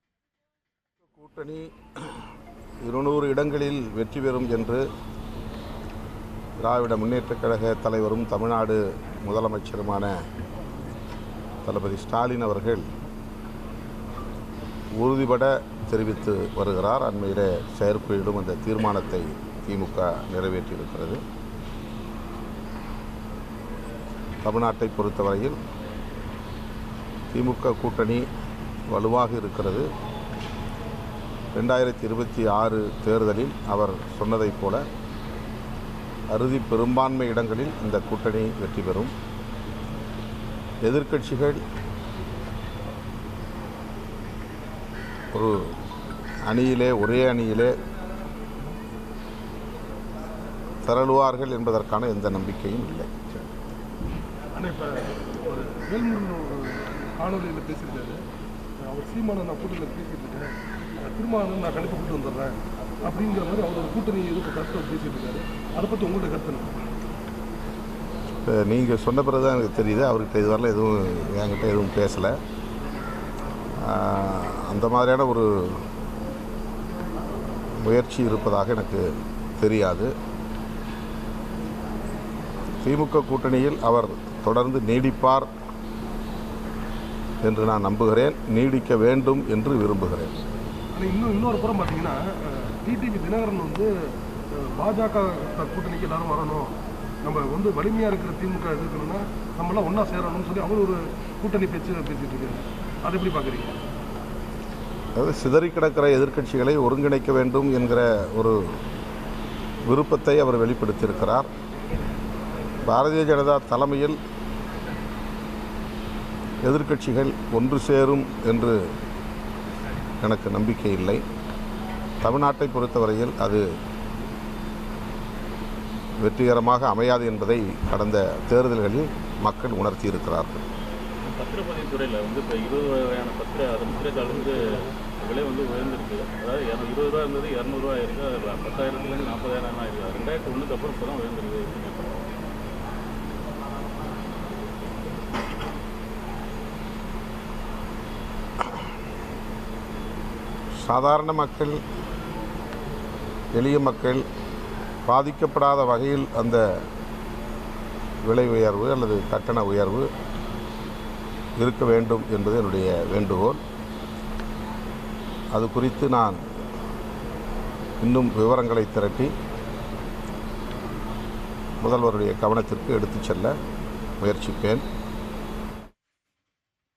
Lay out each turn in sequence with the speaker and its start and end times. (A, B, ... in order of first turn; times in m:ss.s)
0:01.1-0:01.7 A
0:02.8-0:04.8 A
0:06.6-0:10.2 A
0:11.6-0:12.9 A
0:15.0-0:21.2 A
0:24.4-0:25.6 A
0:27.3-0:28.2 A
0:28.9-0:29.9 A
0:31.5-0:34.8 A
0:36.3-0:39.1 A
0:40.8-0:41.6 A
0:45.3-0:45.7 A
0:46.4-0:47.7 A
0:50.8-0:53.4 A
0:54.6-0:58.2 B
0:58.8-1:06.7 B
1:08.4-1:12.4 A
1:13.8-1:15.8 A
1:17.8-1:19.1 A
1:19.6-1:20.1 A
1:22.8-1:25.5 A
1:27.4-1:30.3 A
1:30.9-1:33.9 B
1:34.5-1:43.8 B
1:45.2-1:48.6 A
1:49.9-1:51.5 A
1:52.8-1:54.2 A
1:56.6-1:58.8 A
2:00.2-2:01.2 A
2:02.2-2:03.6 A
2:06.2-2:10.6 A
2:11.3-2:22.2 C
2:30.8-2:31.8 A
2:33.5-2:34.2 A
2:35.0-2:36.8 A
2:38.2-2:40.1 A
2:41.6-2:43.6 A
2:45.5-2:46.4 A
2:48.0-2:49.3 A
2:51.8-2:53.5 A
2:54.2-2:54.8 A